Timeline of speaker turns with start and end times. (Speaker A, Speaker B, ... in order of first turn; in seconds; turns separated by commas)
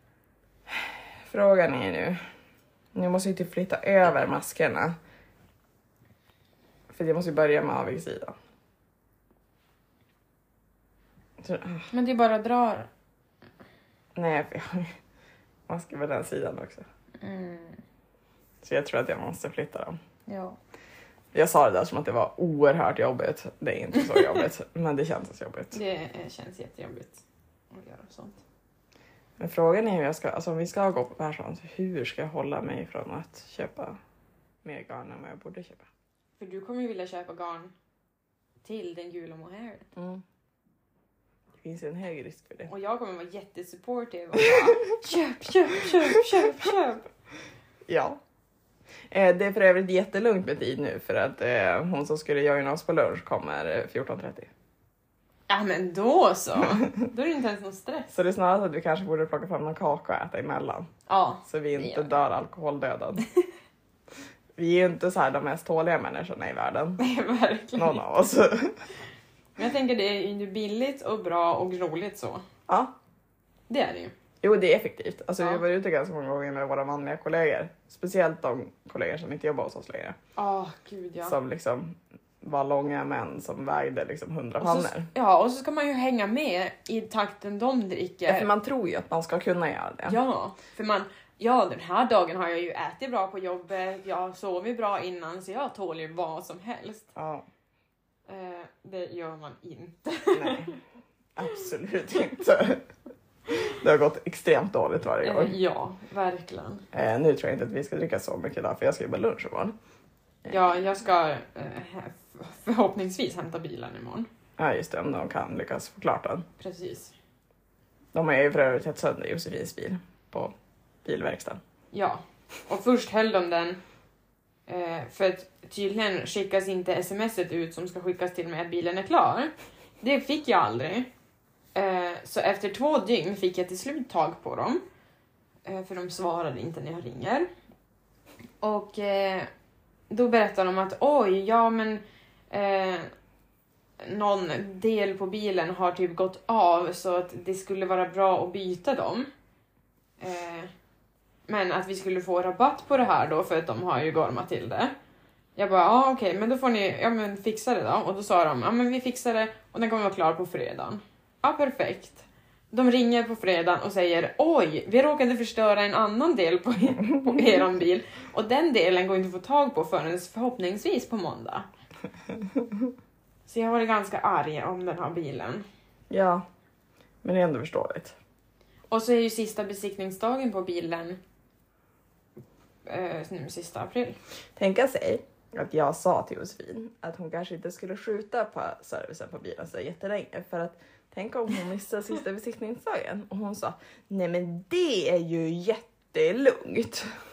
Speaker A: 0.7-2.2, Speaker A: 2.9-5.0, Speaker A: 6.9-8.4, Speaker A: 11.4-11.9, Speaker B: 11.9-12.9, Speaker A: 14.2-15.0, Speaker A: 15.7-16.9, Speaker B: 17.2-17.8, Speaker A: 18.6-20.0, Speaker B: 20.3-20.6, Speaker A: 21.3-25.8, Speaker B: 25.7-28.4, Speaker A: 29.4-34.0, Speaker A: 34.6-35.9, Speaker B: 36.4-37.7, Speaker B: 38.6-39.9, Speaker A: 40.0-40.2, Speaker A: 41.6-42.7, Speaker B: 42.7-47.1, Speaker A: 47.9-48.2, Speaker A: 49.1-54.5, Speaker B: 55.5-58.1, Speaker A: 58.1-60.9, Speaker B: 61.1-62.1, Speaker A: 61.5-63.2, Speaker A: 64.6-67.0, Speaker B: 67.0-68.0, Speaker A: 67.8-68.8, Speaker B: 69.6-72.5, Speaker B: 73.7-74.1, Speaker A: 74.4-80.2, Speaker B: 80.4-81.4, Speaker A: 81.2-85.1, Speaker B: 84.6-88.5, Speaker A: 88.3-90.2, Speaker B: 90.1-97.1, Speaker A: 97.2-97.5, Speaker B: 98.3-100.8, Speaker A: 100.3-100.8, Speaker A: 101.4-102.9, Speaker A: 103.5-105.6, Speaker B: 105.2-106.8, Speaker A: 106.9-109.8, Speaker B: 110.5-114.3, Speaker A: 114.6-116.5, Speaker B: 116.6-117.1, Speaker A: 118.1-120.5, Speaker A: 121.0-121.6, Speaker B: 121.9-123.8, Speaker B: 124.7-131.1, Speaker B: 131.8-134.8, Speaker B: 135.7-137.5, Speaker B: 138.6-139.5, Speaker B: 140.1-143.1, Speaker B: 144.0-149.3, Speaker B: 150.2-150.7, Speaker B: 151.5-154.9, Speaker B: 155.6-171.7, Speaker A: 167.0-167.6, Speaker B: 173.5-175.7, Speaker A: 176.1-176.4, Speaker A: 177.2-178.2, Speaker B: 178.9-181.2, Speaker B: 182.9-184.2, Speaker A: 184.6-197.1